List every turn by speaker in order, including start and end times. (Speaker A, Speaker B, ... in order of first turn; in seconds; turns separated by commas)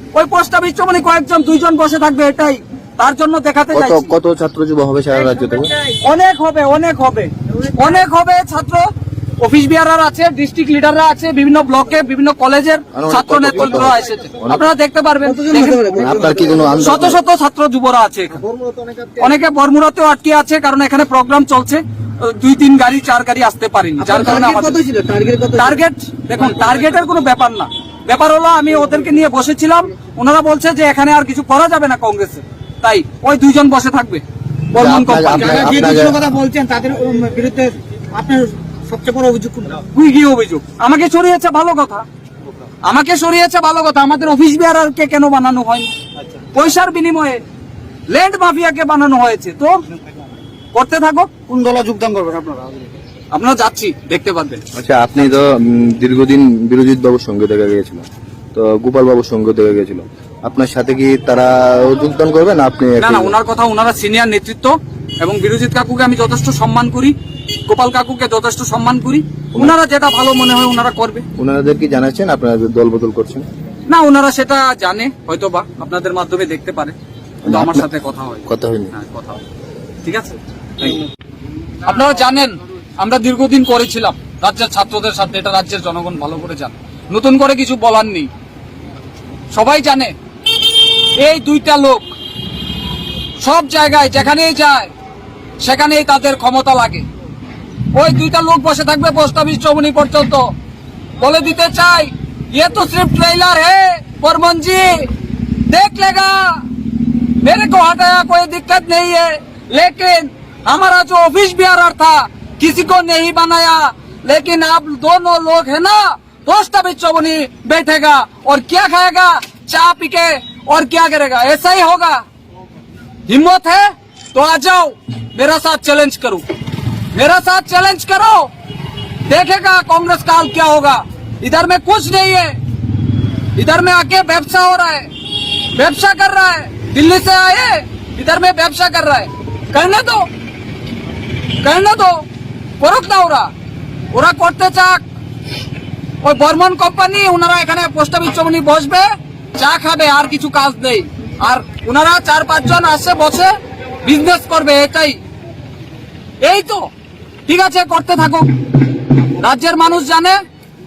Speaker A: 0.1-4.1, Speaker B: 3.7-5.8, Speaker A: 5.9-18.4, Speaker B: 12.9-14.7, Speaker C: 15.2-17.0, Speaker B: 15.9-17.2, Speaker C: 18.4-19.2, Speaker A: 19.2-24.8, Speaker C: 24.0-25.8, Speaker A: 25.5-35.9, Speaker B: 34.7-36.2, Speaker C: 35.4-39.9, Speaker A: 39.9-42.0, Speaker A: 42.8-45.9, Speaker A: 46.5-47.4, Speaker A: 48.1-49.8, Speaker A: 50.7-51.3, Speaker C: 51.5-52.9, Speaker A: 53.3-54.6, Speaker B: 54.8-63.3, Speaker A: 63.0-67.2, Speaker A: 67.7-71.2, Speaker B: 71.4-73.5, Speaker A: 73.9-76.9, Speaker B: 77.5-77.9, Speaker A: 77.5-79.4, Speaker B: 78.5-78.9, Speaker A: 80.0-81.0, Speaker A: 81.8-88.3, Speaker A: 89.5-92.1, Speaker A: 93.4-94.9, Speaker A: 95.6-97.0, Speaker A: 97.9-100.5, Speaker A: 101.2-105.1, Speaker A: 105.6-106.6, Speaker A: 107.4-122.2, Speaker A: 123.3-126.4, Speaker A: 127.1-128.5, Speaker A: 129.3-132.6, Speaker A: 133.5-140.3, Speaker A: 141.6-142.2, Speaker A: 142.8-143.5, Speaker A: 144.1-145.0, Speaker A: 146.2-155.2, Speaker A: 156.4-156.9, Speaker A: 157.5-158.5, Speaker A: 159.1-160.4